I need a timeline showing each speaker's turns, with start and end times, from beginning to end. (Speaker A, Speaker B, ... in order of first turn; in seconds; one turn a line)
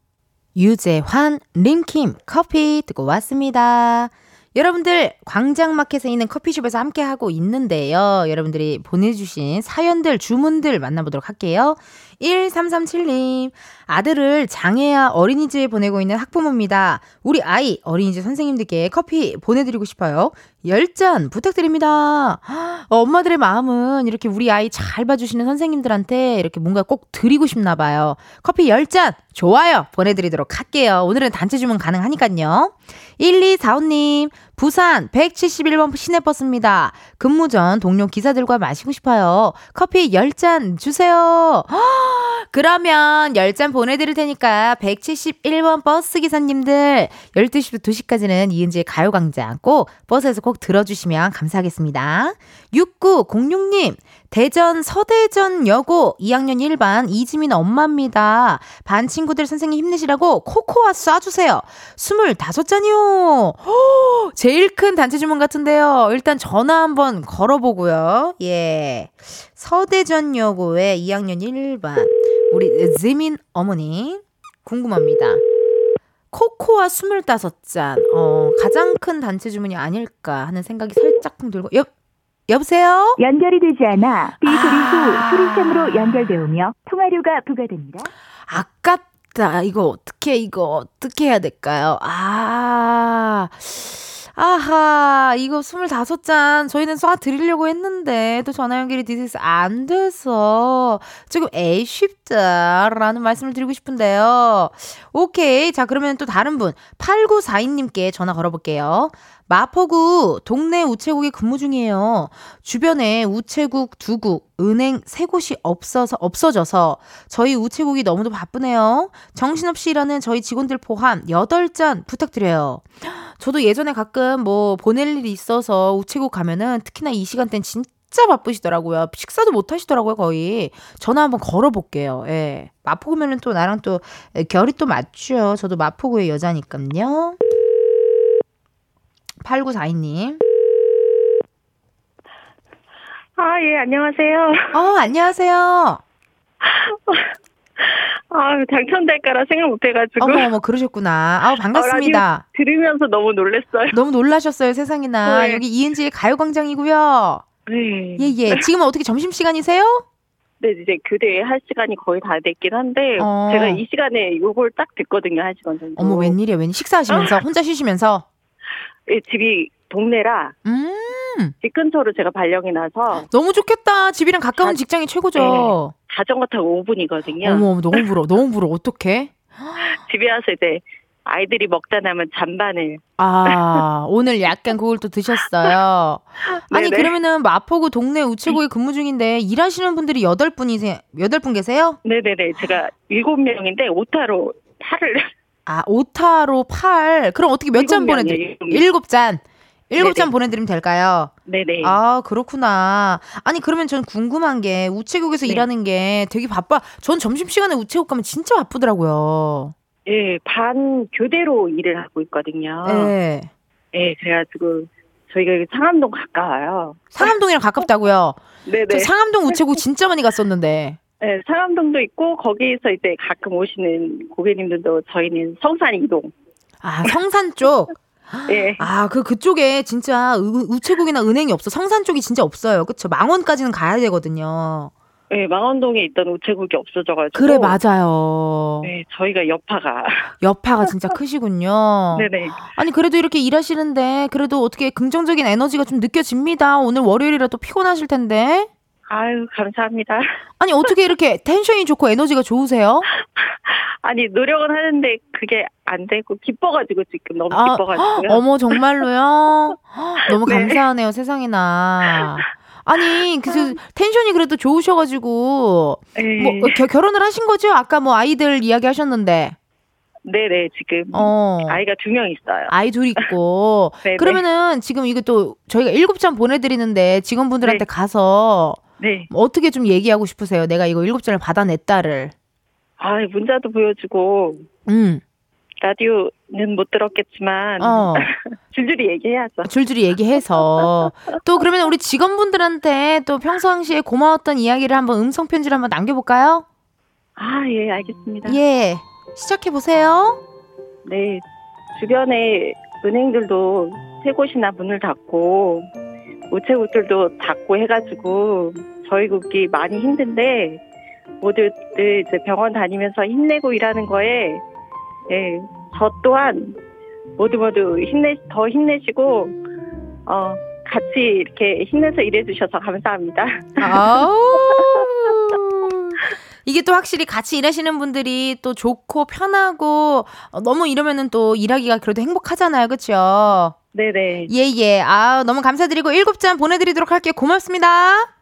Speaker A: 0.6-75.4
Speaker A: 76.3-81.9
Speaker A: 82.5-83.2
Speaker B: 83.2-88.1
Speaker A: 84.4-86.3
Speaker A: 88.5-137.4
Speaker A: 139.4-140.4
Speaker C: 143.4-144.8
Speaker A: 144.7-146.0
Speaker C: 146.6-150.5
Speaker A: 150.2-152.4
Speaker C: 151.7-154.0
Speaker A: 153.9-157.4
Speaker C: 155.2-155.6
Speaker C: 157.7-158.6
Speaker A: 158.2-160.1
Speaker C: 160.6-166.3
Speaker A: 163.2-163.8
Speaker A: 166.0-168.3
Speaker C: 167.1-167.4
Speaker C: 169.1-170.6
Speaker A: 170.7-171.5
Speaker C: 171.6-173.3
Speaker A: 173.3-175.9
Speaker C: 175.3-177.7
Speaker A: 177.4-179.8
Speaker C: 179.8-183.0
Speaker A: 183.2-192.0
Speaker C: 186.7-187.2
Speaker C: 192.1-195.3
Speaker A: 195.7-201.3
Speaker C: 197.8-198.9
Speaker C: 200.0-200.3
Speaker C: 201.5-202.0
Speaker A: 201.8-209.7
Speaker C: 210.1-213.2
Speaker A: 212.8-213.5
Speaker C: 213.9-217.3
Speaker A: 217.1-221.0
Speaker C: 218.7-219.6
Speaker C: 221.2-226.3
Speaker A: 226.8-234.9
Speaker C: 228.5-228.9
Speaker C: 235.3-237.8
Speaker A: 237.3-238.9
Speaker C: 238.8-240.3
Speaker A: 240.4-248.7
Speaker C: 242.1-242.6
Speaker C: 249.1-250.2
Speaker A: 250.6-253.1
Speaker C: 253.4-258.4
Speaker A: 257.5-269.6
Speaker C: 260.3-260.8
Speaker C: 262.2-262.4
Speaker C: 266.2-266.8
Speaker C: 270.2-272.7
Speaker A: 271.1-271.8
Speaker A: 272.7-282.3
Speaker C: 274.0-274.4
Speaker C: 279.0-279.3
Speaker C: 283.0-284.6
Speaker A: 284.9-285.2
Speaker C: 285.8-289.7
Speaker A: 287.8-288.3
Speaker A: 289.6-296.6
Speaker C: 297.4-298.6
Speaker A: 298.4-300.4
Speaker C: 301.1-301.4
Speaker C: 301.9-305.9
Speaker C: 306.5-310.8
Speaker C: 311.4-314.6
Speaker C: 315.3-316.8
Speaker C: 317.4-319.6
Speaker C: 320.3-325.0
Speaker A: 323.8-333.8
Speaker C: 333.9-334.5
Speaker A: 334.5-338.3